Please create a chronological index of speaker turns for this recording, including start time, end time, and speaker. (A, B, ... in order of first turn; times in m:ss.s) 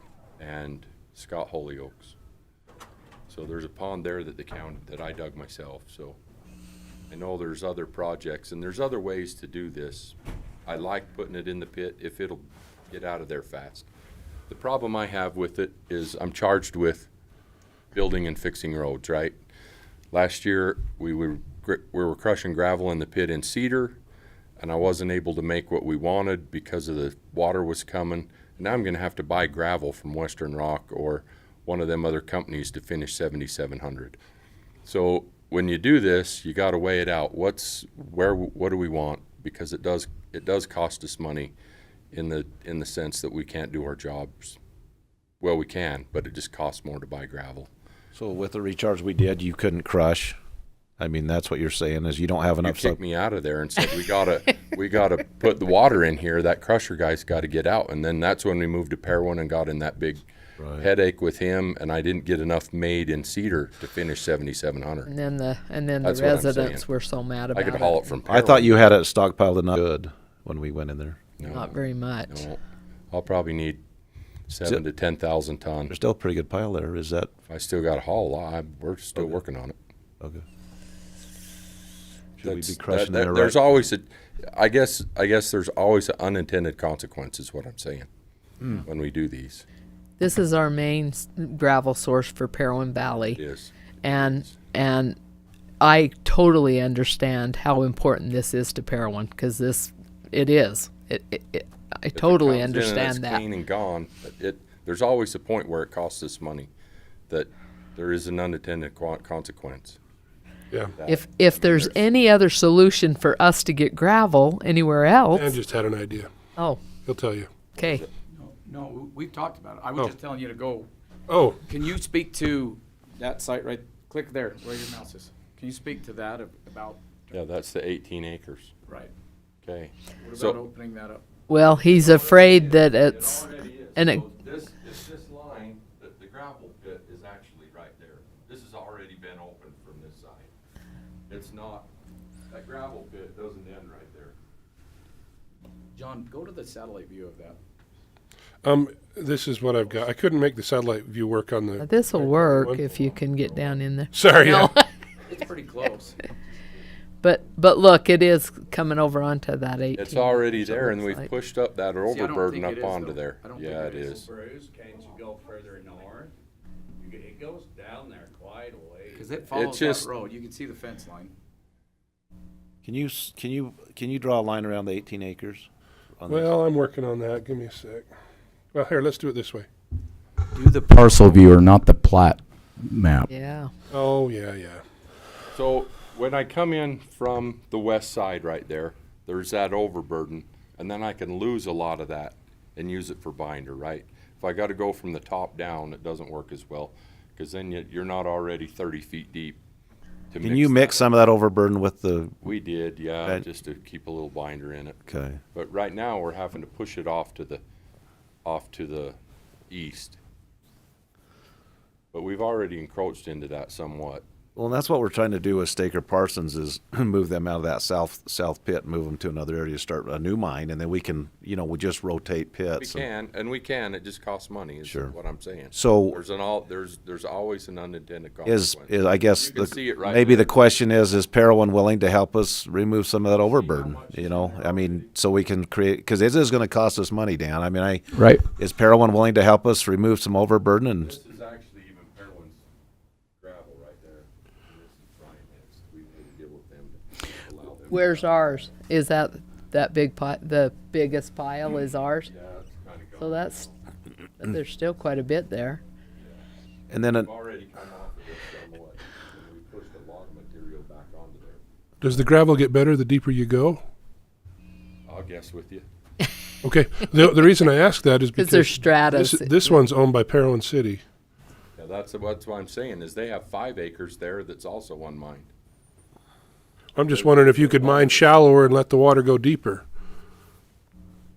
0:00.4-0:02.2 A
0:03.3-0:06.2 A
0:07.1-0:10.1 A
0:10.6-0:13.9 A
0:14.5-0:17.1 A
0:17.9-0:19.3 A
0:20.1-0:24.0 A
0:24.6-0:34.2 A
0:34.8-0:41.5 A
0:42.1-0:44.6 A
0:45.4-0:47.7 A
0:48.1-0:50.4 B
0:51.0-0:53.0 B
0:52.6-1:00.2 A
1:00.6-1:00.9 B
1:00.8-1:05.1 A
1:05.0-1:08.1 C
1:06.0-1:06.8 A
1:07.5-1:08.9 A
1:08.3-1:11.2 B
1:11.4-1:12.6 A
1:11.4-1:12.5 C
1:13.1-1:13.8 A
1:14.5-1:15.9 A
1:15.9-1:17.3 B
1:17.5-1:19.7 A
1:19.2-1:19.4 B
1:22.4-1:23.9 B
1:22.4-1:28.1 A
1:28.8-1:29.6 A
1:30.2-1:33.4 C
1:33.3-1:34.6 A
1:34.0-1:35.2 C
1:35.8-1:43.4 C
1:42.1-1:46.7 A
1:47.3-1:50.0 A
1:51.0-1:52.0 A
1:51.0-1:55.5 C
1:55.3-1:56.3 D
1:56.6-1:56.9 C
1:57.0-1:57.6 D
1:57.7-1:58.0 C
1:57.8-1:58.1 A
1:58.3-2:00.9 E
2:01.3-2:01.6 D
2:01.6-2:07.4 E
2:07.3-2:08.7 A
2:08.9-2:09.1 E
2:09.6-2:10.6 A
2:10.2-2:11.2 E
2:11.5-2:14.2 C
2:11.6-2:20.5 A
2:21.3-2:21.9 A
2:22.5-2:24.3 A
2:25.9-2:27.6 E
2:28.6-2:32.9 D
2:31.8-2:34.8 C
2:34.1-2:34.8 D
2:35.3-2:36.2 E
2:37.2-2:41.3 C
2:40.0-2:44.3 A
2:42.0-2:44.3 E
2:44.2-2:46.3 F
2:47.0-2:49.4 F
2:49.1-2:51.3 E
2:49.5-2:50.1 A
2:52.8-2:56.5 B
2:56.3-2:58.1 D
2:58.7-2:59.7 D
3:00.5-3:03.3 E
3:03.3-3:03.7 C
3:03.9-3:04.8 D
3:05.5-3:19.6 A
3:20.3-3:21.1 A
3:20.4-3:22.4 B
3:22.4-3:25.0 A
3:25.1-3:25.4 B
3:25.5-3:27.6 A
3:28.4-3:29.2 A
3:29.7-3:30.2 A
3:32.1-3:34.2 A
3:34.6-3:43.0 B
3:42.8-3:50.8 A
3:44.8-3:45.1 B
3:45.7-3:46.2 B
3:48.4-4:01.2 B
3:53.2-3:55.1 A
3:58.1-3:58.4 E
4:01.0-4:02.6 A
4:03.4-4:08.7 A
4:07.9-4:12.3 C
4:12.2-4:13.8 A
4:13.2-4:13.6 C
4:14.4-4:15.8 C
4:16.1-4:16.4 A
4:16.9-4:17.3 B
4:17.0-4:21.6 A
4:22.0-4:23.8 D
4:25.0-4:25.8 A
4:26.6-4:31.0 D
4:28.3-4:29.7 C
4:31.8-4:35.5 A
4:37.0-4:39.8 D
4:37.1-4:38.3 A